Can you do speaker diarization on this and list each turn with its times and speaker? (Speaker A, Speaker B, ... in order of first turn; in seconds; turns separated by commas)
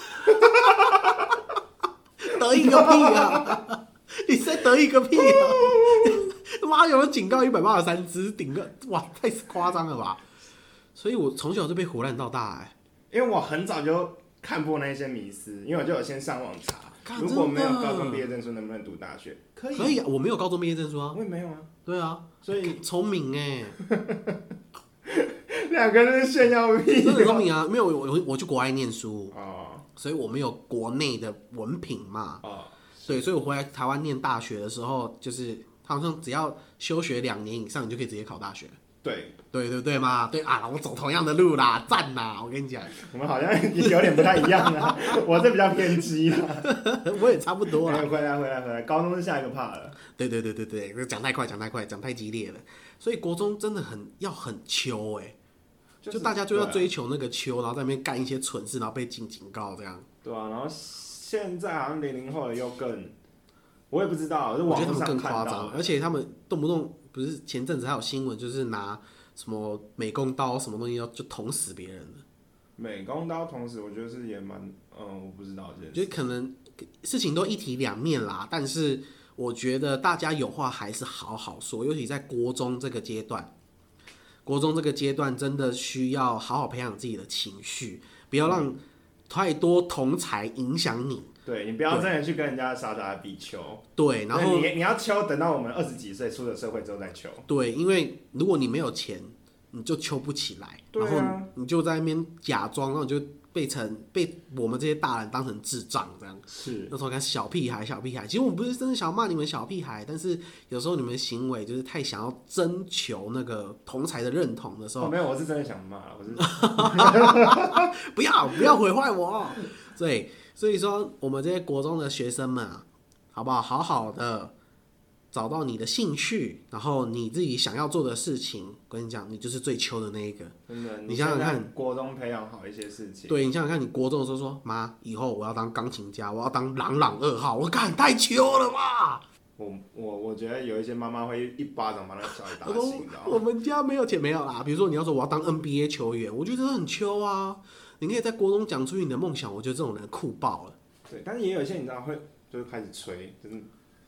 Speaker A: 0.2-1.4, Speaker B: 2.2-10.2, Speaker A: 2.5-3.5, Speaker A: 5.2-6.2, Speaker B: 10.9-12.7, Speaker A: 13.1-20.0, Speaker B: 17.0-18.2, Speaker B: 19.7-21.2, Speaker A: 21.1-21.7, Speaker B: 21.8-23.8, Speaker A: 22.4-22.8, Speaker A: 23.8-24.4, Speaker A: 25.1-27.5, Speaker B: 27.0-29.4, Speaker A: 29.3-29.8, Speaker B: 29.9-32.4, Speaker A: 32.4-33.3, Speaker B: 33.1-38.8, Speaker A: 39.0-39.4, Speaker B: 39.5-43.0, Speaker A: 43.0-46.7, Speaker B: 44.4-45.1, Speaker B: 46.6-48.1, Speaker A: 47.8-50.0, Speaker B: 50.1-55.4, Speaker A: 56.0-56.9, Speaker B: 56.1-60.0, Speaker A: 60.2-63.1, Speaker A: 63.9-65.9, Speaker B: 64.7-72.2, Speaker A: 72.8-76.1, Speaker B: 75.9-83.5, Speaker B: 84.5-91.3, Speaker A: 88.4-88.7, Speaker A: 91.5-97.5, Speaker B: 94.0-94.7, Speaker B: 97.5-115.2, Speaker A: 100.9-101.5, Speaker A: 106.5-106.9, Speaker A: 115.0-117.8, Speaker B: 116.4-124.5, Speaker B: 125.3-130.5, Speaker A: 130.7-133.4, Speaker B: 131.1-131.7, Speaker B: 133.3-139.2, Speaker A: 139.6-143.4, Speaker B: 142.6-150.7, Speaker A: 151.1-153.7